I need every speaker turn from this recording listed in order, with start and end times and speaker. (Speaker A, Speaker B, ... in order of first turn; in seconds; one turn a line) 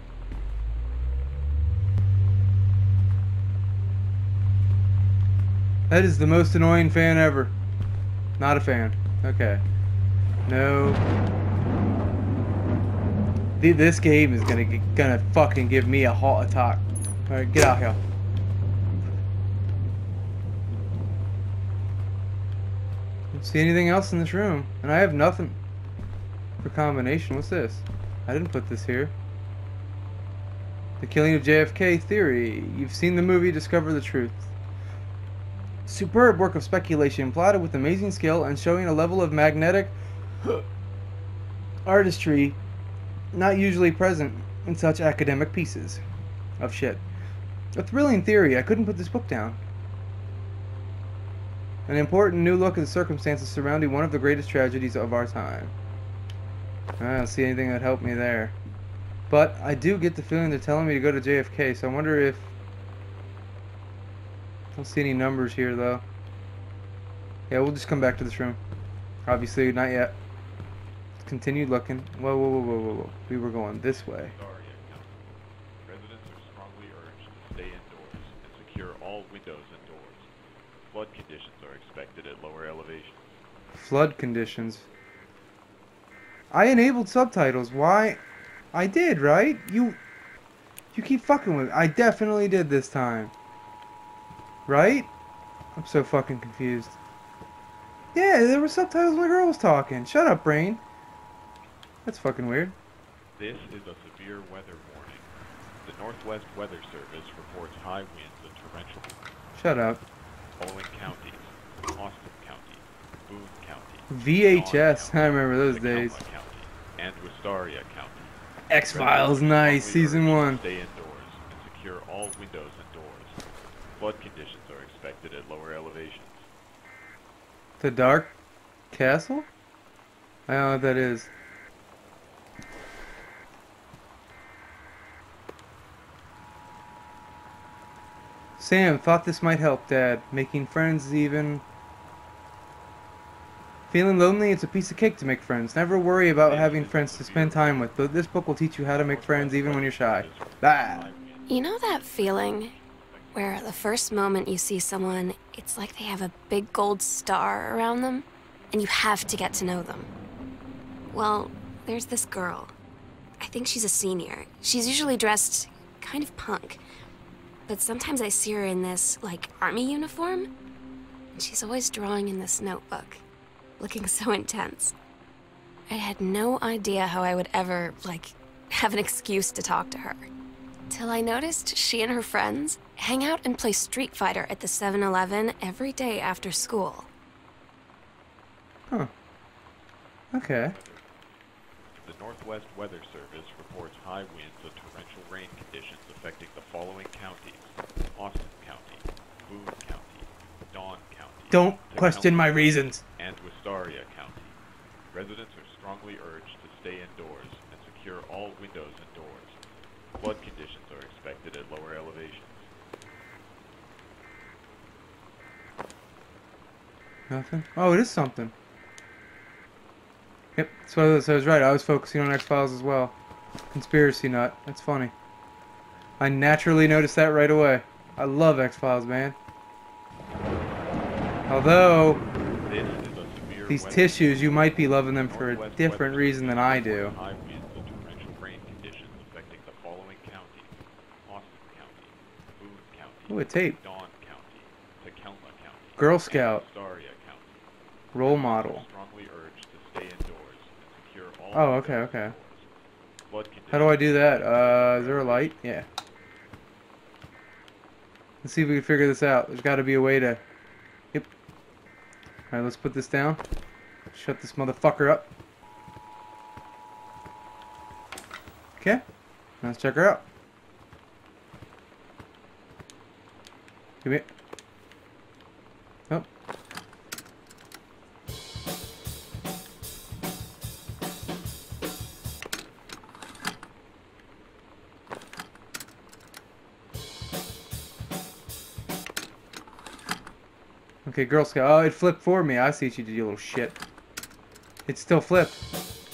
Speaker A: 5.9-7.5
Speaker A: 8.4-9.6
Speaker A: 10.4-11.0
Speaker A: 13.6-18.0
Speaker A: 23.3-25.6
Speaker A: 26.6-29.1
Speaker A: 31.0-34.5
Speaker A: 35.9-40.6
Speaker A: 41.9-42.6
Speaker A: 43.3-46.0
Speaker A: 46.6-47.0
Speaker A: 47.8-49.6
Speaker A: 51.9-55.7
Speaker A: 57.0-58.5
Speaker A: 59.3-62.5
Speaker A: 64.7-66.0
Speaker A: 67.5-68.6
Speaker A: 69.3-70.2
Speaker A: 71.2-74.3
Speaker B: 72.9-75.2
Speaker B: 75.8-80.3
Speaker B: 80.8-83.4
Speaker A: 83.7-84.9
Speaker A: 86.5-88.2
Speaker A: 88.7-90.0
Speaker A: 90.9-93.3
Speaker A: 94.7-95.1
Speaker A: 95.8-97.0
Speaker A: 98.1-100.8
Speaker A: 102.0-102.8
Speaker B: 103.4-105.3
Speaker B: 105.8-109.2
Speaker A: 109.5-110.0
Speaker B: 110.6-123.4
Speaker A: 114.1-116.2
Speaker A: 118.7-120.6
Speaker B: 124.0-126.5
Speaker A: 127.8-128.3
Speaker A: 128.9-129.5
Speaker A: 130.5-131.3
Speaker A: 138.6-141.6
Speaker A: 143.9-151.1
Speaker B: 146.4-148.0
Speaker B: 148.9-154.3
Speaker C: 151.5-152.8
Speaker C: 153.3-160.1
Speaker C: 161.1-162.7
Speaker C: 163.4-166.8
Speaker C: 167.7-170.5
Speaker C: 171.3-173.2
Speaker C: 173.8-174.9
Speaker C: 175.9-180.3
Speaker C: 180.9-187.1
Speaker A: 190.3-190.8
Speaker B: 190.4-204.6
Speaker A: 201.5-203.0
Speaker B: 205.1-209.6
Speaker B: 210.1-212.7
Speaker A: 217.3-218.5
Speaker A: 220.6-223.2
Speaker A: 223.7-225.1
Speaker A: 226.2-229.4
Speaker A: 231.5-232.2
Speaker B: 232.6-240.7
Speaker A: 233.7-237.1
Speaker B: 241.2-247.7
Speaker A: 243.3-243.8
Speaker A: 246.0-246.6
Speaker A: 248.1-248.8
Speaker B: 248.2-252.7
Speaker A: 251.5-252.3
Speaker B: 253.3-255.6
Speaker A: 253.7-255.9
Speaker A: 258.4-260.4
Speaker A: 262.5-263.4
Speaker A: 264.1-265.3
Speaker A: 268.8-269.0
Speaker A: 269.6-270.3
Speaker A: 291.1-293.8
Speaker A: 294.9-295.6